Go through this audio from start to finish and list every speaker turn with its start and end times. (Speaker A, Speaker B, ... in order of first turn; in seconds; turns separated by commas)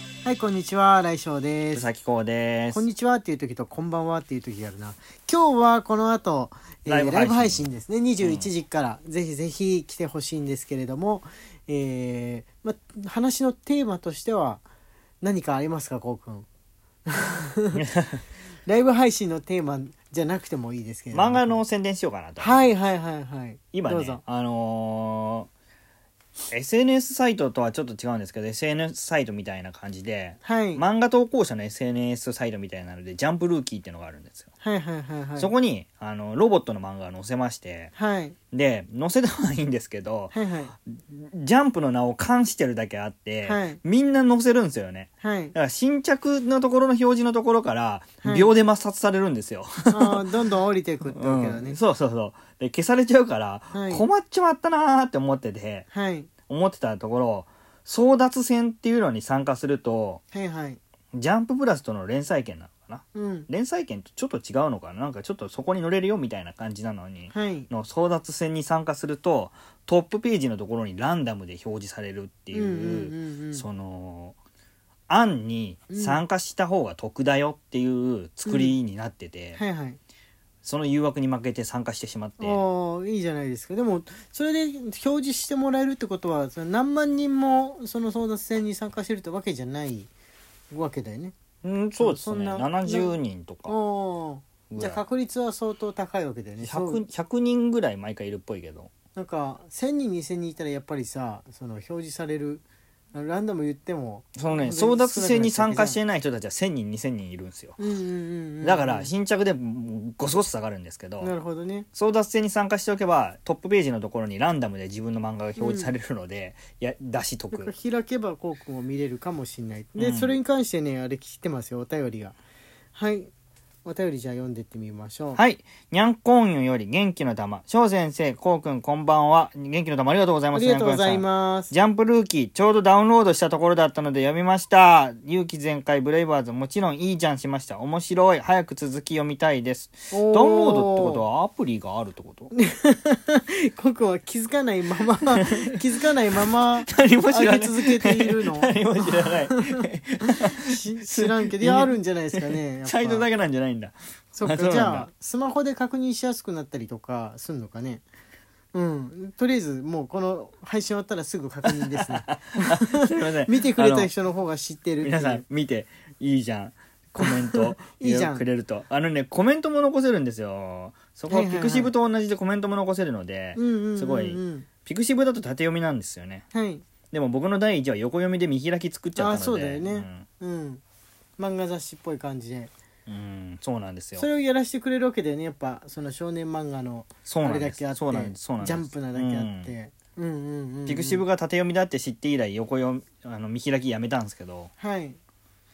Speaker A: 0.2-1.9, Speaker B: 1.7-2.9, Speaker A: 2.7-14.6, Speaker B: 6.9-7.7, Speaker B: 8.2-8.5, Speaker A: 15.2-16.5, Speaker A: 17.1-17.8, Speaker B: 17.8-18.2, Speaker A: 18.7-21.6, Speaker B: 21.1-22.6, Speaker A: 22.4-24.2, Speaker B: 23.7-25.5, Speaker B: 26.5-34.5, Speaker A: 30.4-30.8, Speaker A: 34.6-35.5, Speaker B: 35.4-37.9, Speaker A: 38.0-38.4, Speaker B: 38.5-40.4, Speaker A: 40.3-40.7, Speaker B: 40.9-50.2, Speaker A: 43.5-43.8, Speaker A: 45.2-45.5, Speaker A: 48.2-48.5, Speaker A: 49.9-51.8, Speaker B: 51.1-55.9, Speaker A: 53.7-54.1, Speaker A: 55.9-56.3, Speaker B: 56.5-60.2, Speaker A: 60.3-60.8, Speaker B: 61.1-74.4, Speaker A: 63.1-63.5, Speaker A: 67.3-67.7, Speaker A: 72.5-73.7, Speaker B: 75.1-79.6, Speaker A: 75.9-76.2, Speaker A: 78.5-78.8, Speaker A: 79.6-80.0, Speaker B: 80.6-82.6, Speaker A: 82.4-90.1, Speaker A: 90.7-91.3, Speaker B: 91.6-93.7, Speaker A: 92.0-93.2, Speaker A: 93.7-97.0, Speaker B: 94.7-95.0, Speaker B: 96.6-98.9, Speaker A: 99.2-106.0, Speaker B: 104.4-107.8, Speaker A: 107.8-109.1, Speaker B: 108.6-111.3, Speaker A: 111.2-111.9, Speaker B: 111.9-117.7, Speaker A: 115.6-115.9, Speaker A: 117.5-122.4, Speaker B: 120.0-120.4, Speaker A: 123.0-123.3, Speaker A: 123.8-125.4, Speaker B: 125.3-142.5, Speaker A: 130.5-131.7, Speaker A: 140.1-141.2, Speaker A: 142.5-149.8, Speaker B: 146.9-155.1, Speaker A: 150.6-153.3, Speaker A: 154.3-158.0, Speaker A: 158.7-165.4, Speaker B: 161.7-164.1, Speaker B: 165.0-176.4, Speaker A: 167.2-168.5, Speaker A: 171.3-171.9, Speaker A: 173.6-174.7, Speaker A: 176.5-176.8, Speaker B: 177.1-180.3, Speaker A: 179.2-180.8, Speaker A: 181.4-182.7, Speaker B: 183.1-184.3, Speaker A: 184.2-191.2, Speaker B: 187.3-189.7, Speaker B: 190.9-194.7, Speaker A: 194.8-195.2